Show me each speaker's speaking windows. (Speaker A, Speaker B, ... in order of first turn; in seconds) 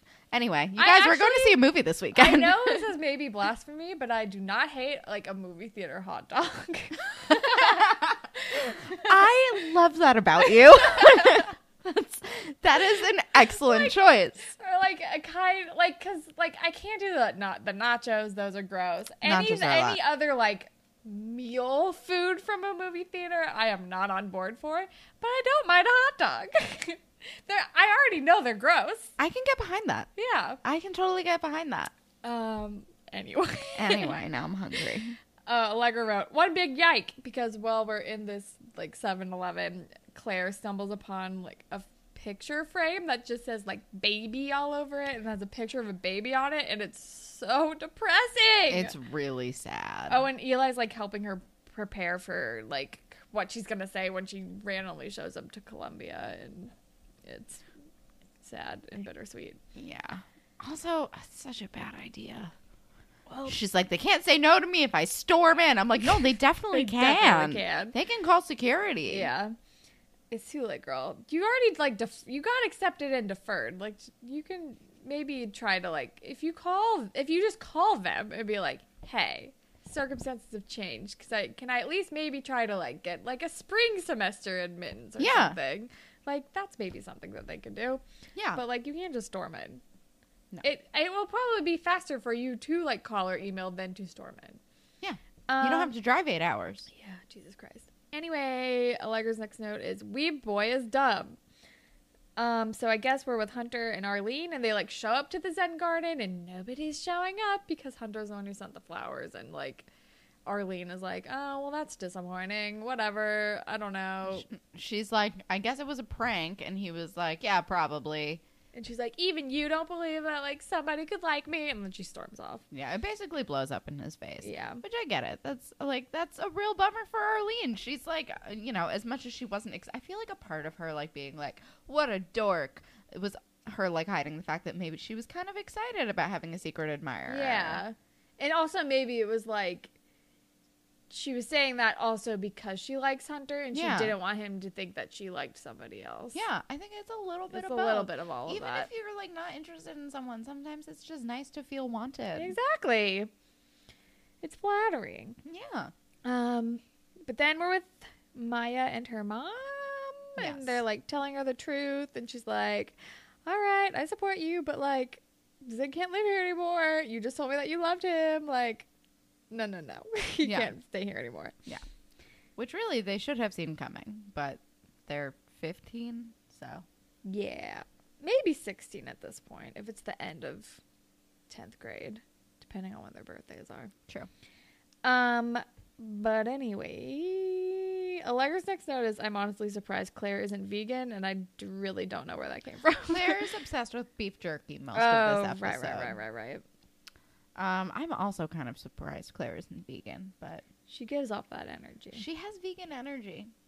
Speaker A: 0.3-2.9, 7.3-14.5, 19.2-20.0, 29.2-30.1, 30.6-31.9, 33.8-35.2, 48.7-50.3, 59.8-62.5, 63.5-69.3, 85.2-85.6, 88.3-88.6, 95.0-96.9, 114.3-118.4, 122.7-137.8, 143.7-144.2, 146.3-152.6, 155.4-155.9, 160.4-160.8, 170.4-170.7, 172.6-176.9, 193.1-196.2, 197.6-200.7, 202.1-203.5
Speaker B: 0.8-9.1, 10.5-11.5, 13.5-29.1, 30.2-30.6, 32.2-34.2, 35.5-49.0, 50.1-56.7, 57.2-57.7, 58.4-59.6, 63.3-63.6, 66.7-68.0, 69.1-69.5, 70.3-88.0, 88.5-89.8, 90.6-94.6, 95.5-95.9, 96.9-101.4, 102.4-109.9, 110.5-114.5, 118.8-122.6, 124.4-124.8, 137.3-139.9, 141.1-146.4, 147.5-148.9, 152.3-153.3, 154.4-155.4, 156.2-168.9, 169.5-171.6, 177.2-180.8, 181.5-183.9, 185.0-193.5, 194.9-196.6, 200.9-202.2